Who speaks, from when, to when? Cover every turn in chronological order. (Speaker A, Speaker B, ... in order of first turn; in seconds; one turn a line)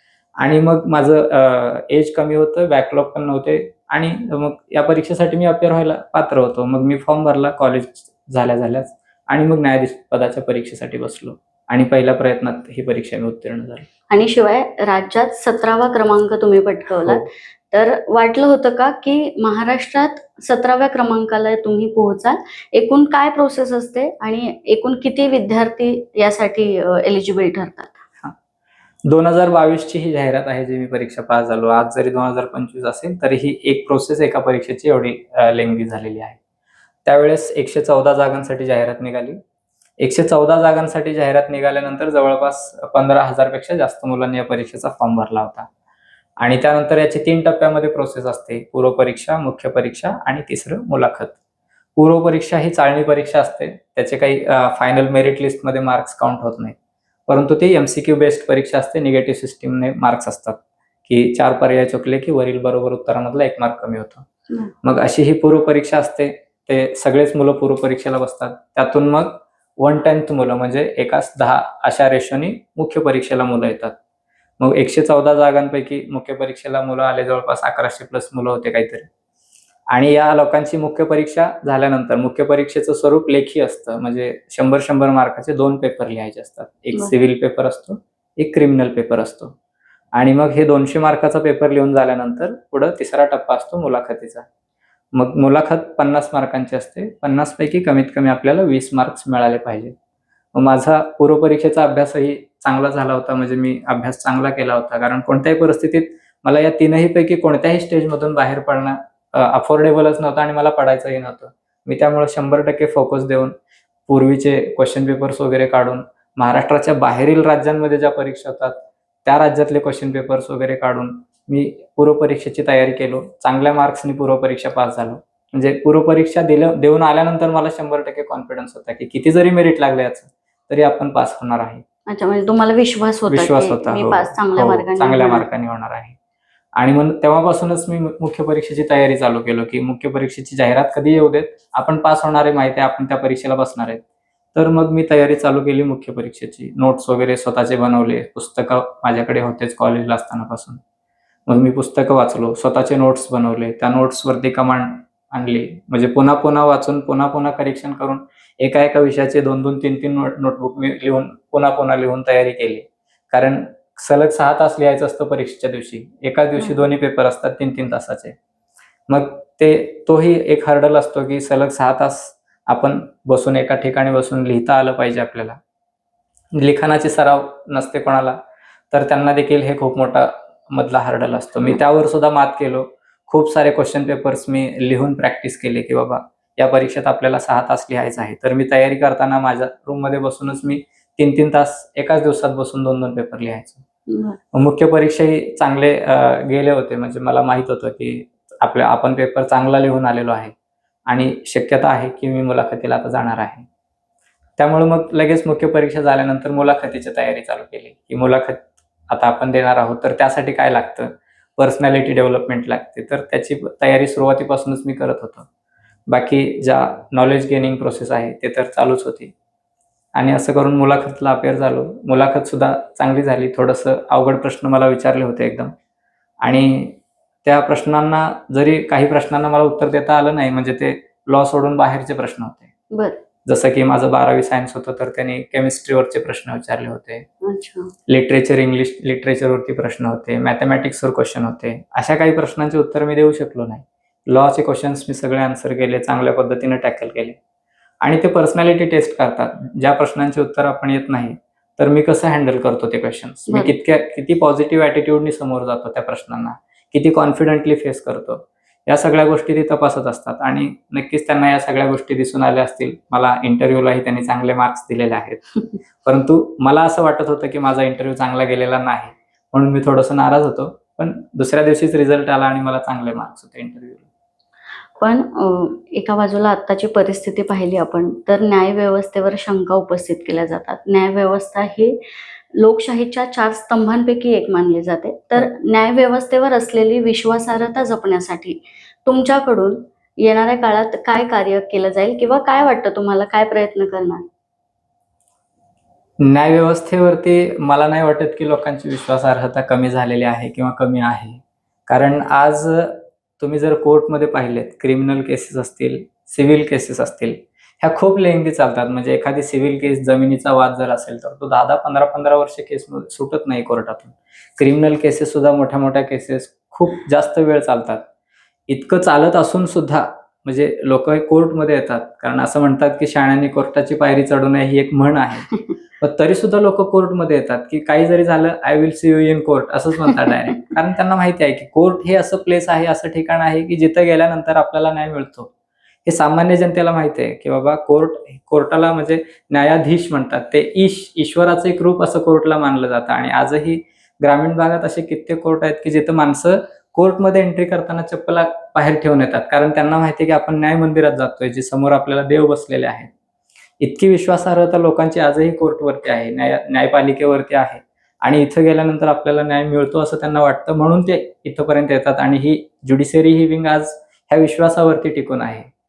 Speaker A: 0.4-13.9
Speaker B: 14.1-28.0
Speaker A: 29.1-36.4
Speaker A: 37.0-39.4
Speaker A: 40.0-45.7
Speaker A: 46.4-51.4
Speaker A: 52.0-56.8
Speaker A: 57.3-64.3
Speaker A: 64.8-74.0
Speaker A: 74.6-79.1
Speaker A: 79.9-89.5
Speaker A: 90.2-94.5
Speaker A: 95.1-100.0
Speaker A: 100.5-113.5
Speaker A: 114.1-131.8
Speaker B: 132.1-135.4
Speaker A: 133.3-136.2
Speaker A: 136.8-144.0
Speaker A: 144.5-150.8
Speaker A: 151.5-168.4
Speaker A: 169.1-175.6
Speaker A: 176.6-178.4
Speaker A: 178.9-193.8
Speaker B: 194.1-194.4
Speaker A: 194.5-200.5
Speaker A: 201.1-203.7
Speaker A: 204.6-215.5
Speaker A: 216.1-219.3
Speaker A: 220.2-225.7
Speaker A: 226.4-232.7
Speaker B: 232.9-233.2
Speaker A: 233.4-237.3
Speaker B: 237.4-237.9
Speaker A: 238.1-247.4
Speaker A: 248.0-265.4
Speaker B: 253.5-253.7
Speaker A: 266.0-274.1
Speaker B: 275.0-282.0
Speaker B: 282.5-294.3
Speaker A: 296.2-318.1
Speaker A: 318.7-335.5
Speaker A: 336.1-353.1
Speaker A: 353.8-365.7